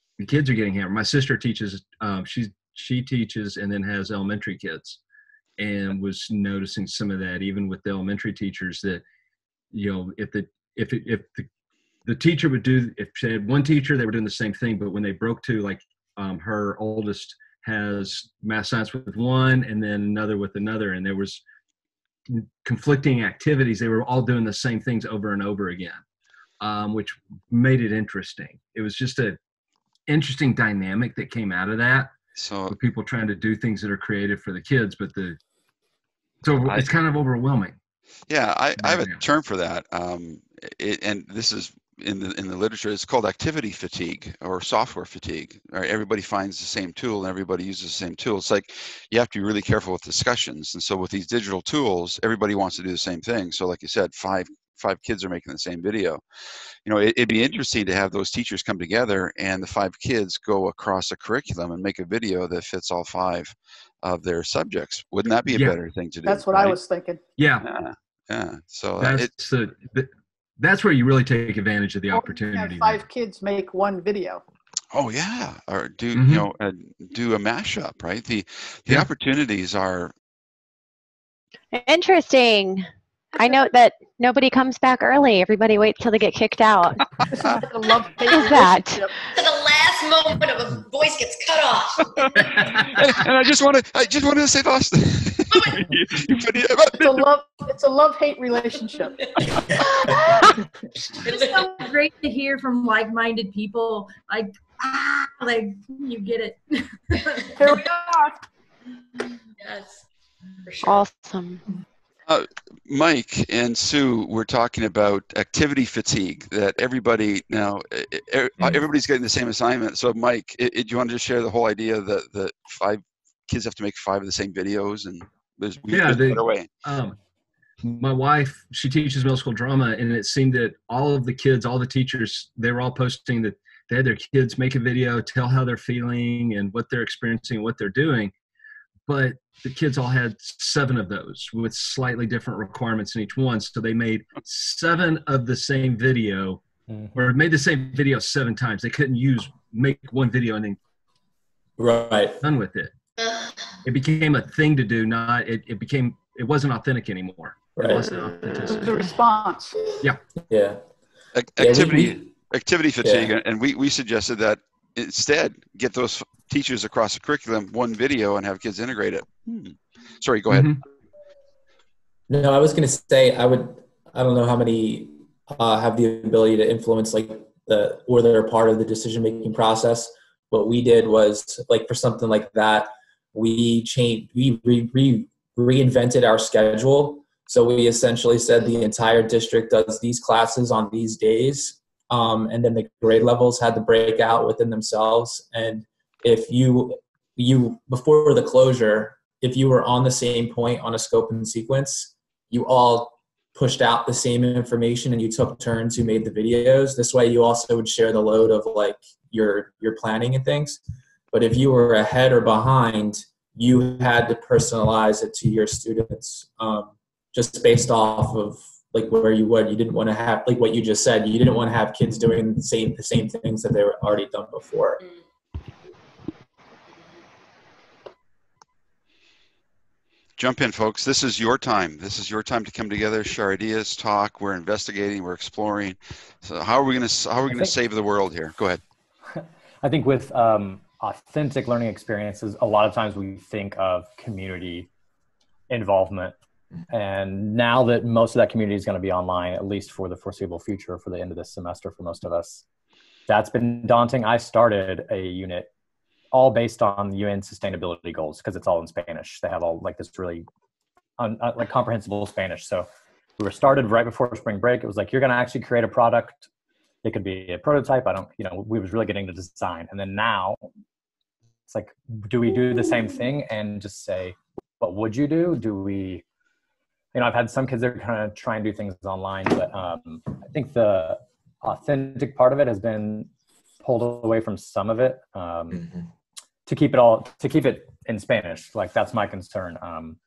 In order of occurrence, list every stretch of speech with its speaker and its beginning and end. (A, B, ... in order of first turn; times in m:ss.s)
0:00.2-0:05.0 A
0:05.6-0:09.0 A
0:09.7-0:11.5 A
0:12.1-0:21.4 A
0:22.3-0:26.0 A
0:26.6-0:29.4 A
0:30.1-0:32.1 A
0:32.4-0:32.8 B
0:32.7-0:35.4 A
0:36.4-0:37.8 A
0:36.7-0:36.9 B
0:38.3-0:56.2 B
0:38.8-0:39.2 A
0:56.8-1:06.8 B
1:05.5-1:05.8 A
1:06.2-1:07.2 C
1:07.4-1:07.7 A
1:07.6-1:09.3 B
1:09.0-1:13.0 A
1:12.1-1:14.4 C
1:14.9-1:20.1 B
1:16.1-1:16.5 A
1:21.7-1:27.0 D
1:27.3-1:29.1 C
1:28.3-1:29.0 D
1:29.3-1:32.5 E
1:32.4-1:32.9 A
1:32.8-1:37.3 B
1:35.5-1:35.8 E
1:37.0-1:39.2 C
1:41.2-1:41.7 E
1:41.3-1:47.5 F
1:47.6-1:48.4 C
1:49.6-1:50.0 E
1:50.6-1:51.1 E
1:50.8-1:51.6 D
1:52.3-2:06.7 B
2:05.9-2:07.2 A
2:07.8-2:18.3 A
2:19.1-2:26.6 A
2:26.9-2:27.2 G
2:27.1-2:30.8 A
2:31.8-2:32.4 H
2:32.4-2:32.9 A
2:33.2-2:33.8 E
2:33.8-2:39.1 A
2:37.8-2:38.3 H
2:38.7-2:39.8 C
2:40.5-2:40.8 H
2:41.4-2:50.8 B
2:41.6-2:42.2 H
2:43.0-2:43.3 H
2:50.5-2:50.8 A
2:52.3-3:30.8 H
3:31.3-3:45.0 H
3:50.4-3:58.8 B
3:57.5-3:57.8 G
3:59.3-4:04.9 G
4:05.7-4:06.4 G
4:06.9-4:12.6 G
4:13.3-4:15.7 G
4:16.3-4:20.5 G
4:21.2-4:26.5 G
4:27.0-4:30.7 G
4:31.7-4:36.2 G
4:37.1-4:43.3 G
4:43.8-4:45.9 G
4:46.7-4:50.2 G